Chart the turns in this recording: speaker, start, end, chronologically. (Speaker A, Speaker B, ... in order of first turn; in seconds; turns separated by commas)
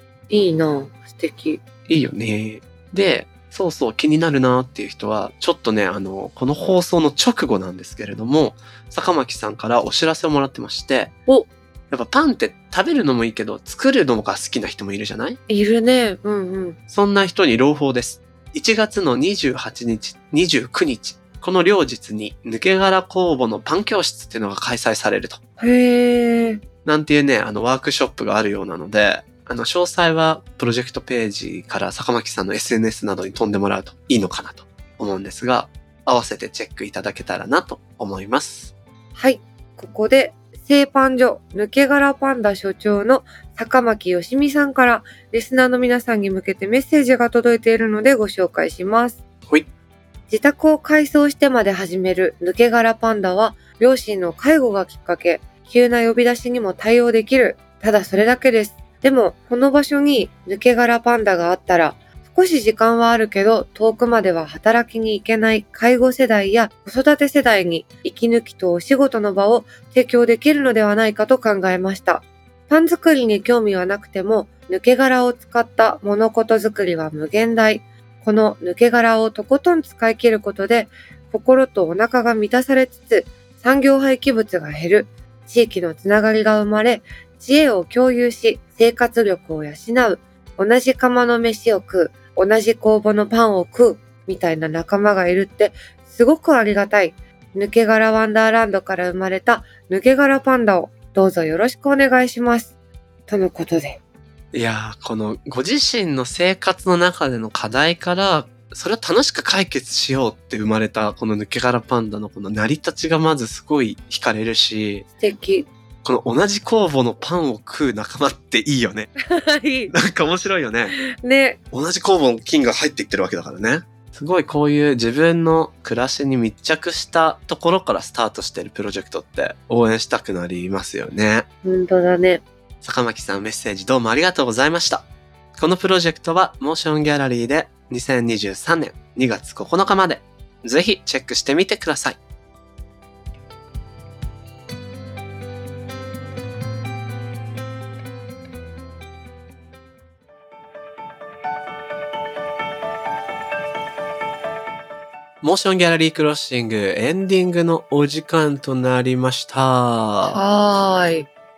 Speaker A: 0.3-1.6, Speaker B: 1.9-11.1, Speaker B: 11.9-15.4, Speaker A: 15.5-16.8, Speaker B: 16.9-25.4, Speaker A: 25.6-26.6, Speaker B: 26.8-38.7, Speaker A: 39.1-49.2, Speaker A: 50.3-102.7, Speaker A: 103.3-104.0, Speaker B: 104.5-115.0, Speaker A: 115.2-115.7, Speaker B: 116.0-119.1, Speaker A: 119.3-119.9, Speaker B: 119.9-121.0, Speaker A: 121.0-121.6, Speaker B: 121.7-131.5, Speaker A: 131.6-132.4, Speaker B: 132.8-142.2, Speaker B: 155.4-160.4, Speaker A: 160.2-161.3